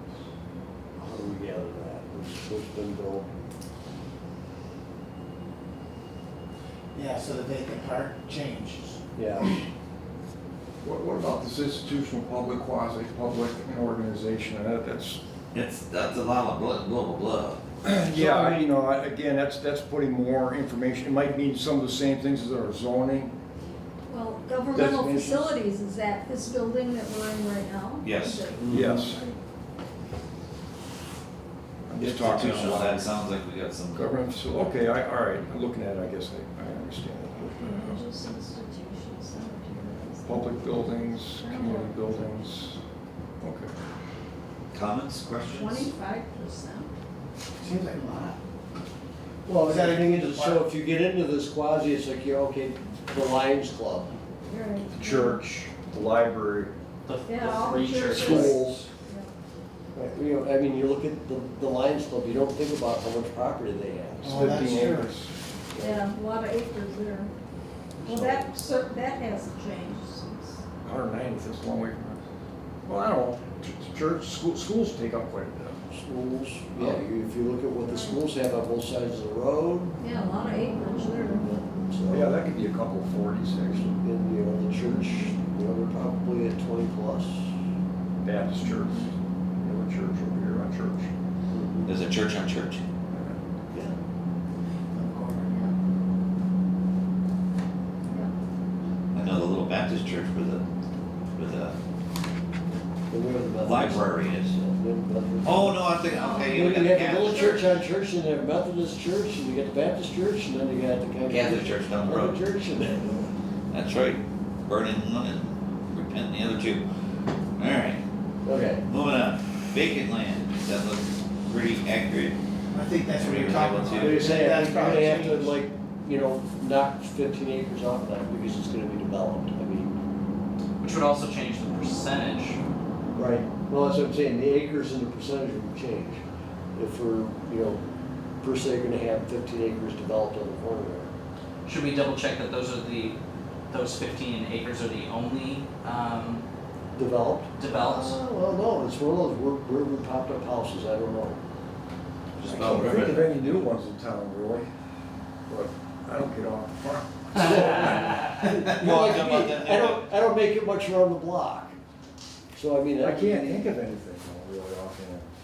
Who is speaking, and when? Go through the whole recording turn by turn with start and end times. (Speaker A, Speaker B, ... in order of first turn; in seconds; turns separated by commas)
Speaker A: 1.0-3.3, Speaker B: 6.9-9.0, Speaker A: 9.2-9.6, Speaker C: 10.8-15.2, Speaker D: 15.5-17.6, Speaker C: 17.8-23.3, Speaker A: 18.1-18.7, Speaker E: 24.1-29.4, Speaker C: 24.8-25.5, Speaker D: 28.0-28.4, Speaker A: 28.6-28.9, Speaker C: 28.7-29.2, Speaker C: 31.9-33.1, Speaker D: 32.0-34.1, Speaker C: 33.9-38.0, Speaker E: 37.5-42.2, Speaker C: 40.2-42.8, Speaker C: 43.4-43.7, Speaker D: 44.7-45.9, Speaker E: 45.5-46.9, Speaker B: 47.6-48.4, Speaker A: 49.5-54.1, Speaker B: 49.6-50.6, Speaker E: 54.5-55.4, Speaker C: 54.9-56.7, Speaker F: 57.0-58.5, Speaker E: 57.2-59.3, Speaker C: 58.1-58.9, Speaker A: 58.3-58.8, Speaker A: 59.9-64.7, Speaker B: 64.2-65.1, Speaker C: 64.2-65.3, Speaker E: 65.8-67.3, Speaker A: 68.0-68.5, Speaker E: 68.0-70.6, Speaker C: 70.8-72.2, Speaker C: 72.8-75.8, Speaker A: 75.9-80.0, Speaker E: 77.8-78.2, Speaker E: 80.0-81.5, Speaker A: 81.2-82.3, Speaker C: 82.1-84.0, Speaker A: 84.0-87.5, Speaker C: 88.2-91.1, Speaker E: 88.6-89.1, Speaker A: 91.5-91.9, Speaker D: 91.8-92.8, Speaker C: 93.1-93.4, Speaker A: 93.7-94.0, Speaker B: 94.9-95.6, Speaker E: 95.5-95.7, Speaker D: 99.1-100.6, Speaker D: 101.3-101.8, Speaker A: 103.1-105.9, Speaker D: 103.6-104.5, Speaker D: 105.4-107.7, Speaker E: 106.1-106.7, Speaker A: 106.5-113.3, Speaker D: 111.3-113.0, Speaker D: 113.7-116.8, Speaker D: 117.5-118.0, Speaker A: 118.4-118.8, Speaker D: 118.8-122.3, Speaker B: 122.7-125.6, Speaker D: 123.2-124.5, Speaker A: 124.0-130.0, Speaker F: 130.8-132.6, Speaker A: 133.2-136.2, Speaker A: 136.7-137.8, Speaker A: 138.4-141.1, Speaker F: 141.6-143.2, Speaker F: 143.7-146.4, Speaker A: 146.9-151.4, Speaker F: 147.6-148.2, Speaker D: 152.3-153.6, Speaker C: 152.4-154.7, Speaker C: 155.5-157.1, Speaker A: 157.3-161.7, Speaker D: 158.4-160.0, Speaker A: 162.5-163.6, Speaker C: 163.0-165.3